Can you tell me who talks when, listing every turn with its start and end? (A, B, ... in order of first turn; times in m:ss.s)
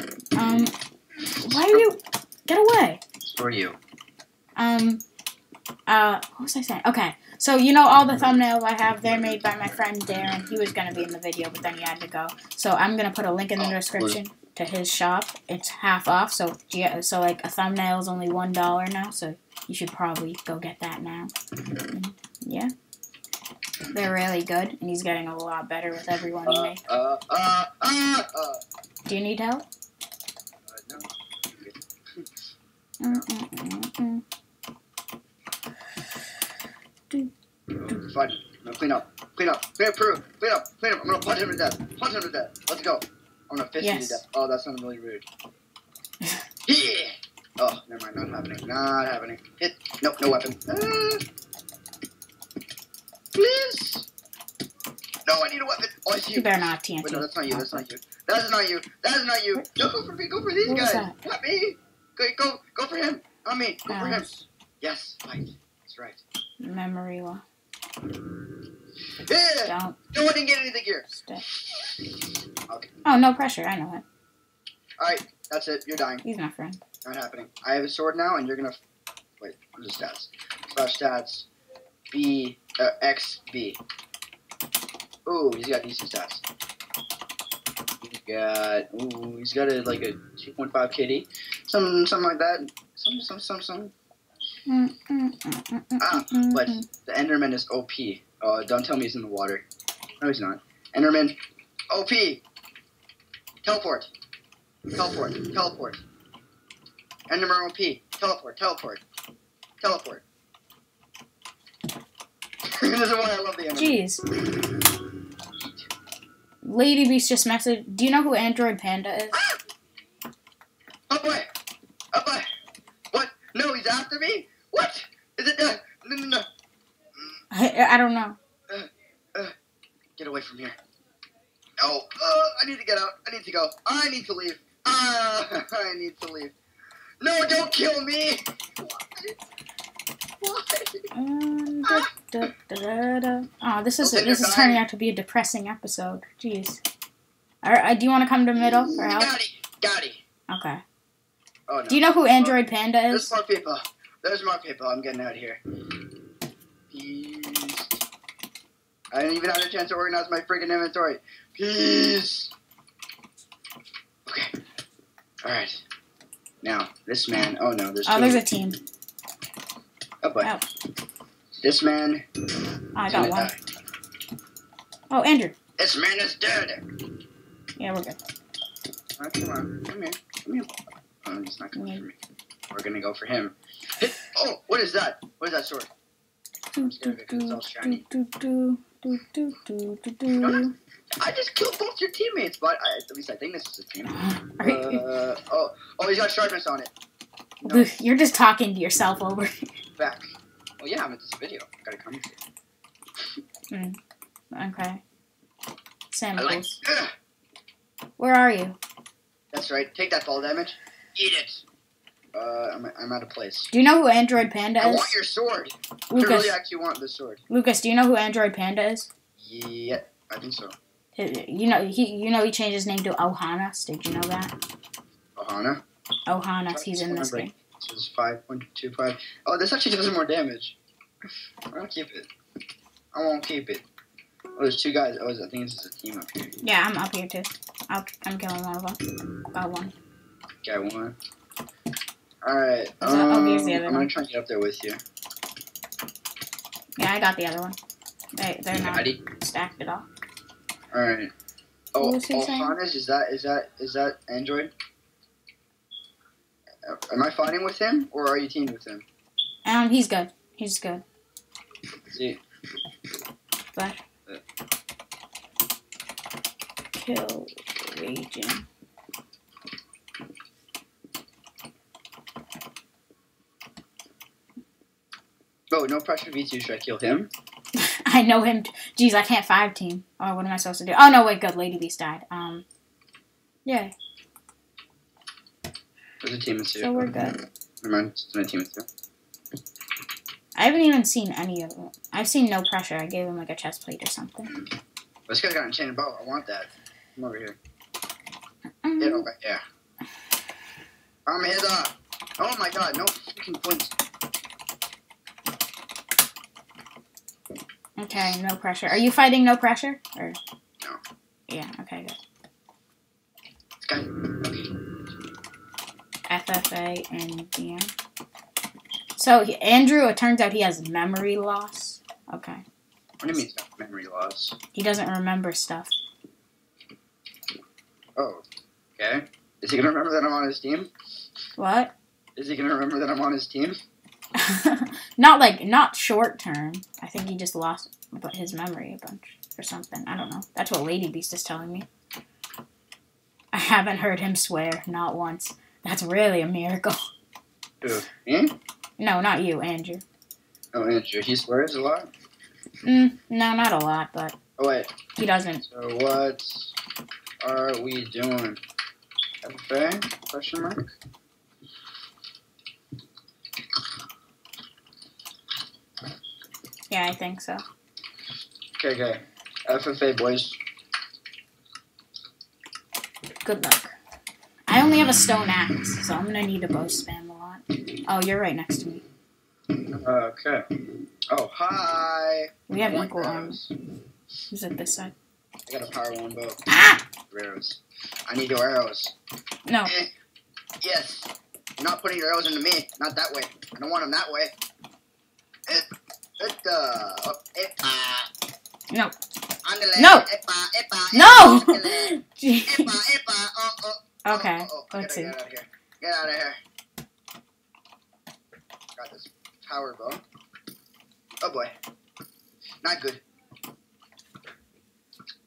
0:00.4-0:00.7 A
0:01.3-0:01.8 B
0:01.4-0:03.0 A
0:03.2-0:03.8 B
0:04.6-0:05.0 A
0:05.9-0:21.3 A
0:13.6-0:14.2 B
0:21.9-0:22.7 A
0:23.9-0:26.8 A
0:26.4-0:28.6 B
0:29.0-0:29.6 A
0:30.7-0:32.3 B
0:33.0-0:34.2 A
0:37.8-0:45.2 B
0:43.8-0:44.2 A
0:46.6-0:51.2 B
0:53.3-0:54.1 B
0:55.2-1:04.3 B
0:56.3-0:57.8 A
1:00.6-1:01.1 A
1:03.9-1:04.4 A
1:04.8-1:06.2 B
1:06.6-1:07.4 A
1:09.2-1:12.1 B
1:09.6-1:10.0 A
1:11.1-1:11.4 A
1:12.7-1:13.1 B
1:13.0-1:14.0 A
1:15.0-1:16.2 B
1:16.2-1:16.8 A
1:17.0-1:18.8 B
1:19.4-1:21.5 B
1:22.1-1:23.8 B
1:25.2-1:26.4 B
1:28.0-1:33.9 B
1:34.7-1:36.8 A
1:36.0-1:39.6 B
1:40.2-1:41.4 B
1:41.9-1:42.4 B
1:43.6-1:44.1 B
1:44.9-1:46.0 B
1:47.3-1:49.0 B
1:49.8-1:50.2 B
1:52.7-1:54.7 B
1:53.7-1:54.2 A
1:55.6-1:55.9 B
1:56.6-1:59.4 A
2:01.1-2:01.5 B
2:02.1-2:02.4 B
2:03.1-2:06.4 B
2:07.5-2:08.4 A
2:08.7-2:09.5 B
2:10.2-2:10.8 B
2:11.8-2:16.5 B
2:17.2-2:19.4 B
2:20.4-2:21.1 B
2:21.1-2:26.8 A
2:21.8-2:22.4 B
2:24.0-2:24.8 B
2:27.6-2:29.3 A
2:28.6-2:30.2 B
2:30.5-2:30.8 A
2:31.7-2:32.6 B
2:31.9-2:33.3 A
2:33.1-2:35.6 B
2:36.9-2:38.0 B
2:39.1-2:42.5 B
2:44.2-2:44.5 B
2:45.4-2:45.8 B
2:46.6-2:48.4 B
2:48.0-2:48.8 A
2:50.2-2:50.5 B
2:51.6-2:52.2 B
2:52.9-2:53.5 A
2:53.1-2:53.6 B
2:55.1-2:55.5 A
2:55.8-2:56.8 B
2:57.8-2:58.2 A
2:59.2-3:02.2 B
3:01.7-3:02.0 A
3:02.7-3:05.9 B
3:06.8-3:10.7 A
3:06.8-3:08.0 B
3:10.4-3:10.7 B
3:11.2-3:16.9 B
3:14.1-3:15.0 A
3:17.6-3:17.9 B
3:17.7-3:19.7 A
3:20.0-3:20.2 B
3:20.8-3:22.4 B
3:23.7-3:24.0 A
3:24.5-3:25.0 A
3:26.1-3:26.8 A
3:26.4-3:27.1 B
3:28.2-3:28.8 A
3:29.5-3:31.6 B
3:32.3-3:33.7 B
3:33.7-3:35.2 A
3:34.8-3:37.4 B
3:36.1-3:36.6 A
3:37.5-3:39.1 A
3:39.4-3:40.7 B
3:41.2-3:44.5 A
3:45.4-3:45.8 B
3:46.3-3:47.5 A
3:46.7-3:50.8 B
3:51.7-3:52.3 B
3:53.1-3:53.8 B
3:54.6-3:56.6 B
3:56.6-3:59.9 A
4:00.6-4:01.2 B
4:02.4-4:05.0 B
4:03.0-4:04.1 A
4:07.0-4:07.8 A
4:08.4-4:10.1 A
4:08.7-4:09.2 B
4:10.9-4:11.3 B
4:11.9-4:14.7 B
4:12.0-4:12.7 A
4:16.8-4:19.0 B
4:19.6-4:21.0 A
4:22.1-4:22.4 B
4:23.7-4:24.0 A
4:26.9-4:28.6 A
4:35.7-4:37.3 B
4:37.8-4:42.6 A
4:43.6-4:43.9 A
4:46.2-4:47.1 B
4:46.7-4:47.4 A
4:47.8-4:48.8 B
4:50.5-4:54.5 A
4:55.3-4:57.6 B
4:58.8-4:59.2 A
4:59.0-4:59.6 B
5:01.2-5:03.9 B
5:08.0-5:10.4 A
5:11.5-5:12.2 A
5:13.8-5:14.7 B
5:16.3-5:17.9 A
5:19.2-5:22.6 A
5:23.2-5:24.6 B
5:24.7-5:25.9 A
5:28.2-5:28.4 B
5:29.0-5:30.9 B
5:31.6-5:31.9 A
5:32.4-5:33.8 B
5:34.4-5:41.9 A
5:43.5-5:47.0 A
5:47.8-5:48.5 B
5:49.0-5:50.0 A
5:50.7-5:52.1 B
5:52.8-5:54.4 A
5:54.6-5:54.9 B
5:55.2-5:55.6 A
5:55.6-5:56.7 B
5:57.4-5:58.6 B
5:59.4-6:00.8 B
6:06.9-6:07.6 A
6:08.8-6:10.6 B
6:13.4-6:13.9 A
6:14.7-6:19.0 A
6:19.9-6:20.6 B
6:21.3-6:23.7 B
6:22.7-6:23.6 A
6:24.5-6:25.1 A
6:25.7-6:26.6 B
6:26.7-6:27.0 A
6:27.3-6:29.1 B
6:29.6-6:29.9 A
6:29.8-6:30.1 B
6:30.8-6:34.5 B
6:36.4-6:38.3 B
6:39.6-6:46.6 B
6:40.0-6:40.3 A
6:41.1-6:42.9 A
6:44.2-6:45.3 A
6:49.0-6:50.2 B
6:51.4-6:51.7 B
6:52.8-6:53.2 B